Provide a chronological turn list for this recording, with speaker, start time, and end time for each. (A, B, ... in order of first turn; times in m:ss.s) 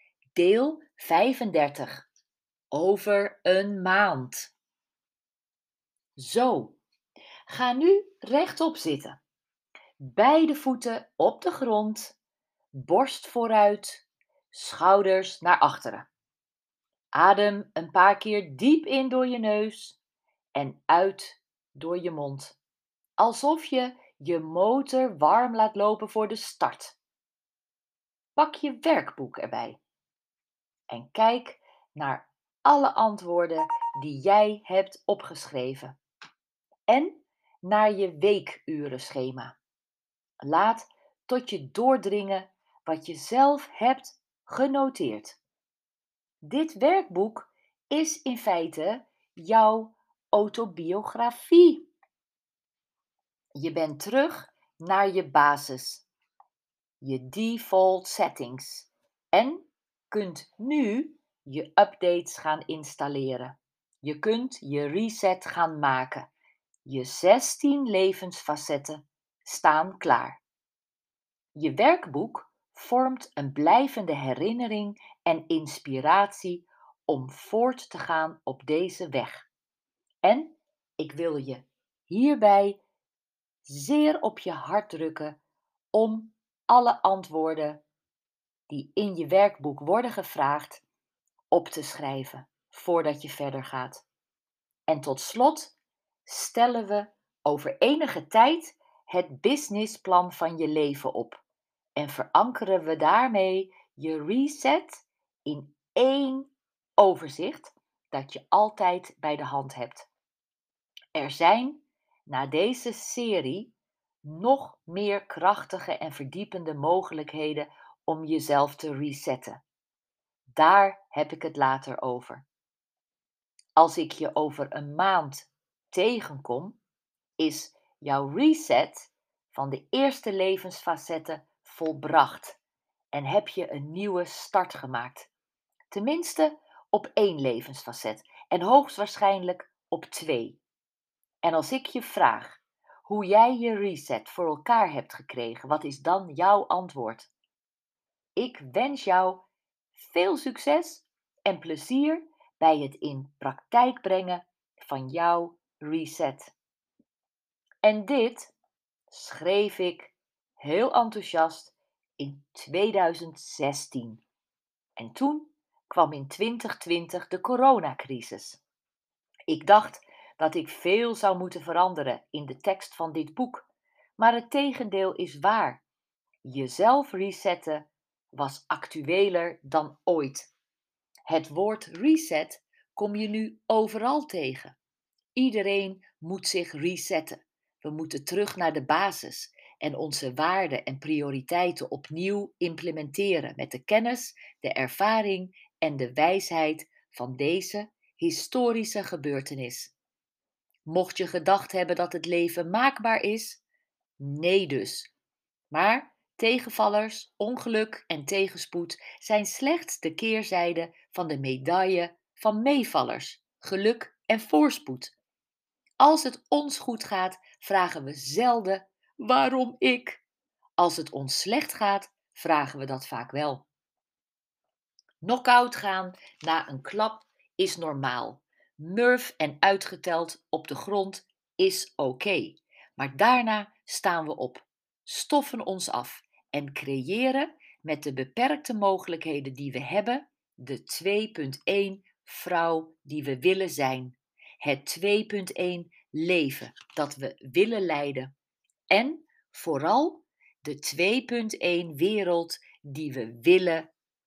0:00.3-0:02.0 A
0:02.7-0:04.5 A
0:06.2-0:06.8 A
0:07.5-0:09.2 A
0:10.0-0:12.2 A
0:12.7-0:16.1 A
0:17.1-0:20.0 A
0:20.5-0:22.6 A
0:23.2-0:27.0 A
0:28.4-0:29.8 A
0:30.9-0:36.0 A
0:36.9-0:39.5 A
0:40.4-0:45.4 A
0:46.4-0:51.9 A
0:53.5-0:56.0 A
0:57.0-1:06.3 A
1:06.8-1:10.4 A
1:11.5-1:19.5 A
1:20.2-1:22.8 A
1:23.6-1:25.4 A
1:25.9-1:27.8 A
1:28.7-1:30.8 A
1:31.5-1:34.0 A
1:34.9-1:35.7 A
1:36.2-1:41.4 A
1:42.0-1:50.1 A
1:51.1-1:53.7 A
1:54.2-1:59.6 A
2:00.5-2:02.4 A
2:03.8-2:06.8 A
2:07.4-2:12.6 A
2:13.1-2:15.3 A
2:15.9-2:20.6 A
2:21.4-2:27.3 A
2:28.4-2:36.5 A
2:37.8-2:38.5 A
2:39.1-2:44.2 A
2:45.0-2:48.6 A
2:49.5-2:53.7 A
2:54.2-2:55.8 A
2:56.4-3:00.5 A
3:01.2-3:04.8 A
3:05.4-3:19.9 A
3:20.8-3:23.6 A
3:24.2-3:25.1 A
3:25.7-3:35.1 A
3:36.0-3:40.2 A
3:40.8-3:43.6 A
3:45.2-4:08.3 A
4:08.9-4:13.9 A